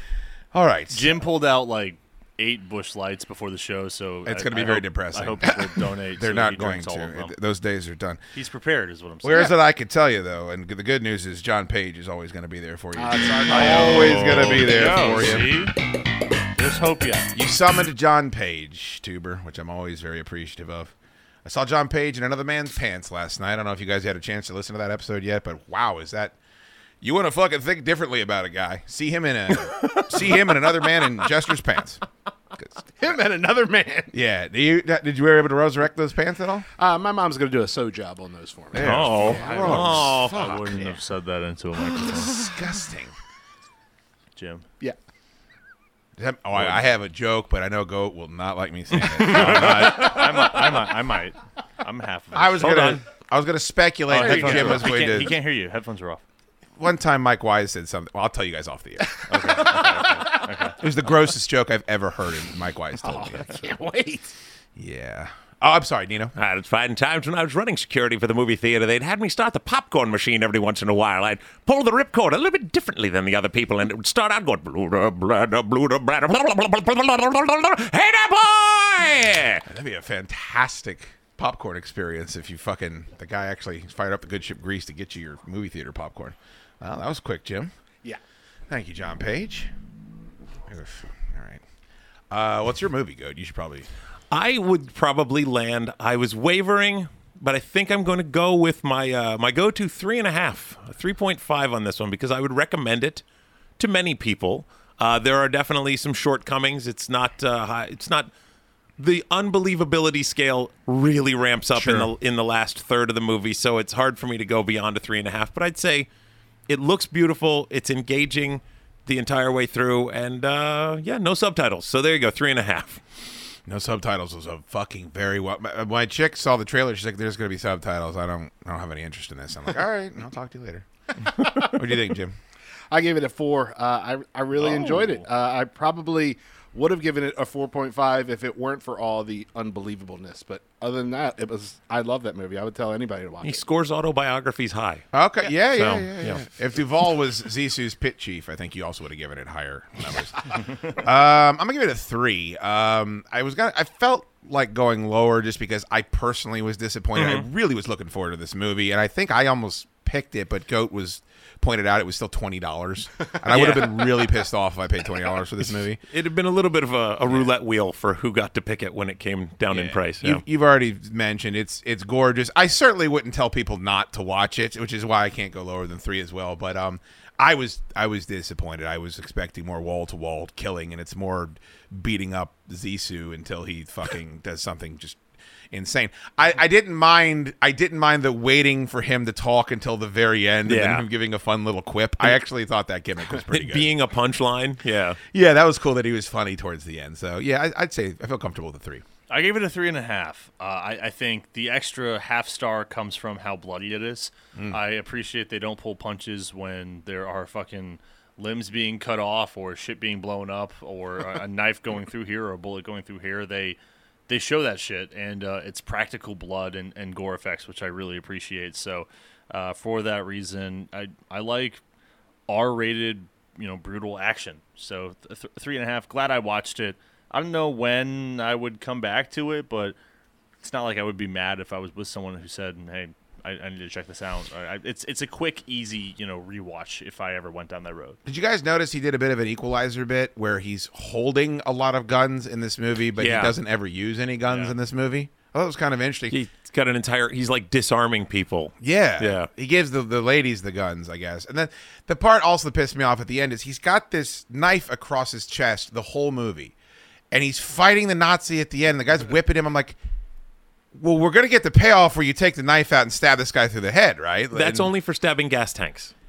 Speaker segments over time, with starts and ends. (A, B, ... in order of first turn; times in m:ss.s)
0:00.5-0:01.2 A
0:00.9-0:07.4 B
0:04.2-0:08.2 A
0:08.4-0:09.5 B
0:09.2-0:15.6 A
0:13.0-0:14.5 C
0:13.4-0:15.8 B
0:14.1-0:14.7 D
0:16.6-0:17.3 B
0:17.3-0:20.9 A
0:21.4-0:26.4 A
0:27.0-0:32.0 A
0:32.6-0:32.8 A
0:33.0-0:34.1 C
0:34.1-0:36.7 A
0:36.8-0:39.6 C
0:38.7-0:41.0 A
0:38.8-0:42.5 B
0:38.8-0:40.5 D
0:42.0-0:43.1 A
0:44.4-0:44.7 B
0:46.2-0:50.5 A
0:46.6-0:46.8 B
0:49.2-0:53.0 B
0:49.3-0:49.8 D
0:52.3-0:55.4 A
0:52.6-0:53.0 D
0:54.1-0:56.2 B
0:54.2-0:55.0 C
0:56.8-0:59.8 A
0:59.3-1:00.8 B
0:59.4-1:00.4 C
1:00.8-1:03.5 A
1:03.0-1:04.3 C
1:04.8-1:06.3 A
1:06.4-1:19.7 D
1:19.6-1:27.7 A
1:28.7-1:29.7 A
1:30.7-1:31.6 A
1:32.3-1:33.9 A
1:34.3-1:43.2 D
1:43.8-1:48.3 D
1:49.0-1:56.1 D
1:51.7-1:52.1 A
1:56.7-2:03.0 D
2:03.7-2:10.9 A
2:11.4-2:12.4 A
2:12.9-2:23.6 C
2:14.8-2:15.2 B
2:23.4-2:25.1 D
2:25.1-2:46.0 A
2:25.6-2:26.4 D
2:37.2-2:37.5 D
2:43.5-2:44.0 D
2:46.1-2:50.4 D
2:49.7-3:05.2 A
3:05.7-3:14.0 A
3:10.7-3:11.0 D
3:13.4-3:15.2 D
3:15.3-3:19.0 A
3:19.3-3:33.8 B
3:34.3-3:41.8 B
3:42.5-3:50.0 B
3:50.6-3:58.2 B
3:58.3-4:06.4 A
4:03.2-4:03.6 D
4:04.5-4:04.7 B
4:06.3-4:09.5 D
4:08.8-4:16.7 A
4:17.3-4:20.0 A
4:20.9-4:24.9 A
4:24.5-4:26.1 D